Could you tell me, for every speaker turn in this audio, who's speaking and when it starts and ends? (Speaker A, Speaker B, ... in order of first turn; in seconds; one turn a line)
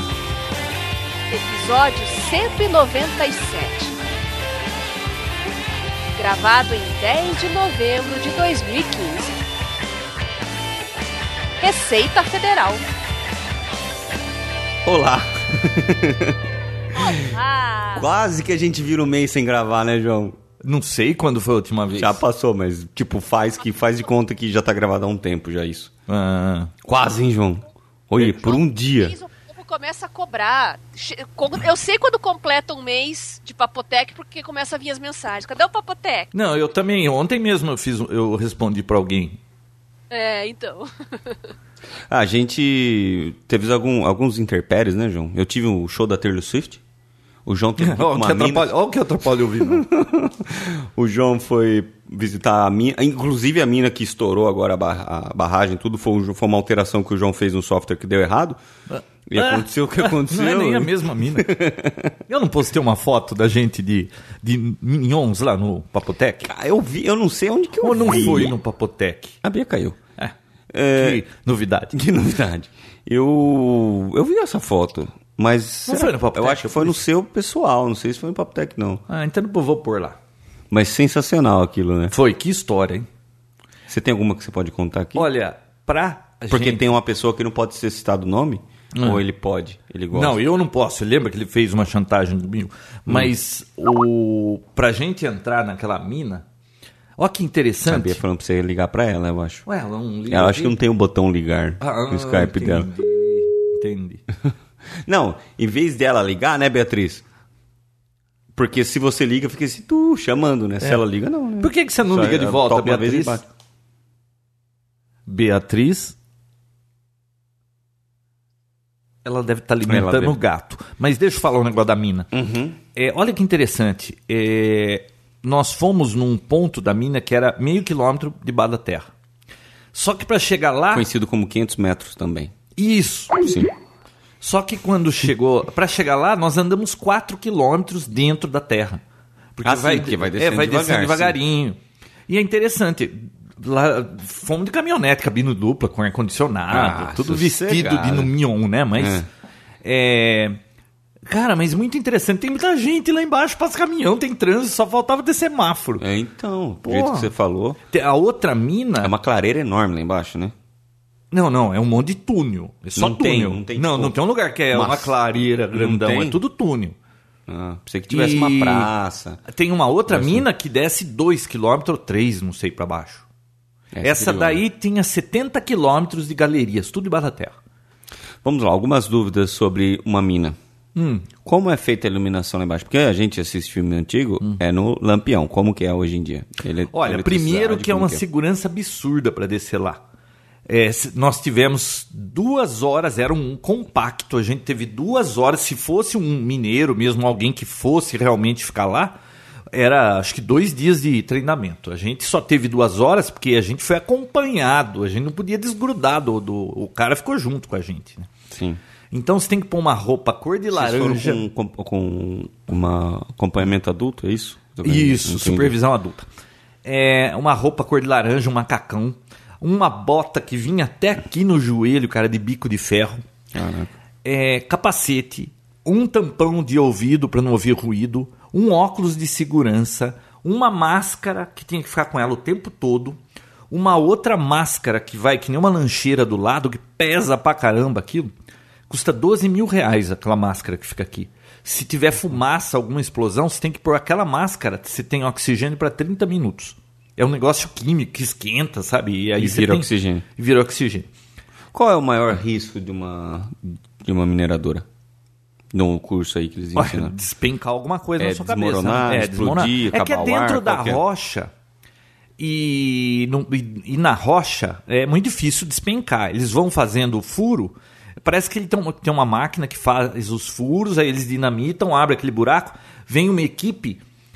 Speaker A: 1.3-4.0
Speaker A: 6.2-9.3
Speaker A: 11.6-12.8
Speaker B: 14.8-16.4
Speaker A: 16.9-18.1
Speaker B: 17.0-17.3
Speaker B: 17.9-20.4
Speaker C: 20.6-22.2
Speaker B: 21.9-25.9
Speaker C: 26.1-26.7
Speaker B: 26.8-29.1
Speaker A: 28.2-36.3
Speaker C: 36.3-39.4
Speaker A: 40.1-41.4
Speaker B: 42.1-46.8
Speaker B: 47.5-48.7
Speaker C: 47.8-49.9
Speaker B: 49.5-58.6
Speaker C: 58.9-61.5
Speaker B: 59.3-62.2
Speaker C: 62.3-66.5
Speaker B: 66.4-68.6
Speaker C: 67.8-69.4
Speaker B: 69.4-70.0
Speaker B: 70.7-71.2
Speaker C: 71.0-72.0
Speaker B: 71.9-79.0
Speaker C: 75.9-77.0
Speaker C: 79.1-80.2
Speaker B: 80.7-82.1
Speaker C: 82.1-83.1
Speaker B: 83.9-85.3
Speaker C: 85.2-86.8
Speaker B: 86.5-90.4
Speaker C: 89.0-89.2
Speaker C: 90.1-96.5
Speaker B: 93.1-93.3
Speaker C: 97.2-98.2
Speaker B: 97.8-99.7
Speaker C: 99.7-100.8
Speaker B: 100.3-102.9
Speaker C: 101.8-104.2
Speaker B: 104.9-107.2
Speaker B: 108.6-113.5
Speaker C: 111.6-113.4
Speaker C: 115.3-116.2
Speaker C: 119.2-122.3
Speaker B: 119.8-120.4
Speaker B: 122.3-122.8
Speaker C: 123.0-129.1
Speaker C: 129.9-131.1
Speaker B: 130.9-132.5
Speaker C: 132.8-133.4
Speaker B: 133.4-133.7
Speaker C: 134.4-139.0
Speaker C: 139.6-149.2
Speaker B: 139.6-141.4
Speaker B: 146.7-148.3
Speaker B: 149.0-149.3
Speaker C: 149.8-150.6
Speaker C: 151.3-156.0
Speaker B: 156.0-157.8
Speaker C: 156.8-157.3
Speaker C: 157.9-159.1
Speaker B: 159.0-160.5
Speaker C: 161.3-167.0
Speaker B: 163.0-164.2
Speaker B: 164.7-166.4
Speaker B: 167.5-169.4
Speaker C: 168.1-168.9
Speaker C: 169.5-173.2
Speaker B: 170.1-170.5
Speaker B: 173.9-174.6
Speaker C: 174.0-177.6
Speaker B: 178.4-180.6
Speaker C: 181.0-181.3
Speaker B: 181.4-188.2
Speaker C: 186.9-190.0
Speaker C: 190.7-199.2
Speaker C: 199.7-208.3
Speaker B: 208.5-208.8
Speaker C: 209.1-211.4
Speaker B: 210.7-215.8
Speaker C: 214.8-216.3
Speaker C: 216.8-223.2
Speaker B: 223.5-223.9
Speaker C: 224.2-233.2
Speaker C: 233.7-238.3
Speaker C: 238.9-251.1
Speaker B: 249.4-250.2
Speaker B: 251.7-254.9
Speaker B: 255.7-257.1
Speaker C: 256.8-261.5
Speaker B: 258.2-261.0
Speaker C: 262.4-274.0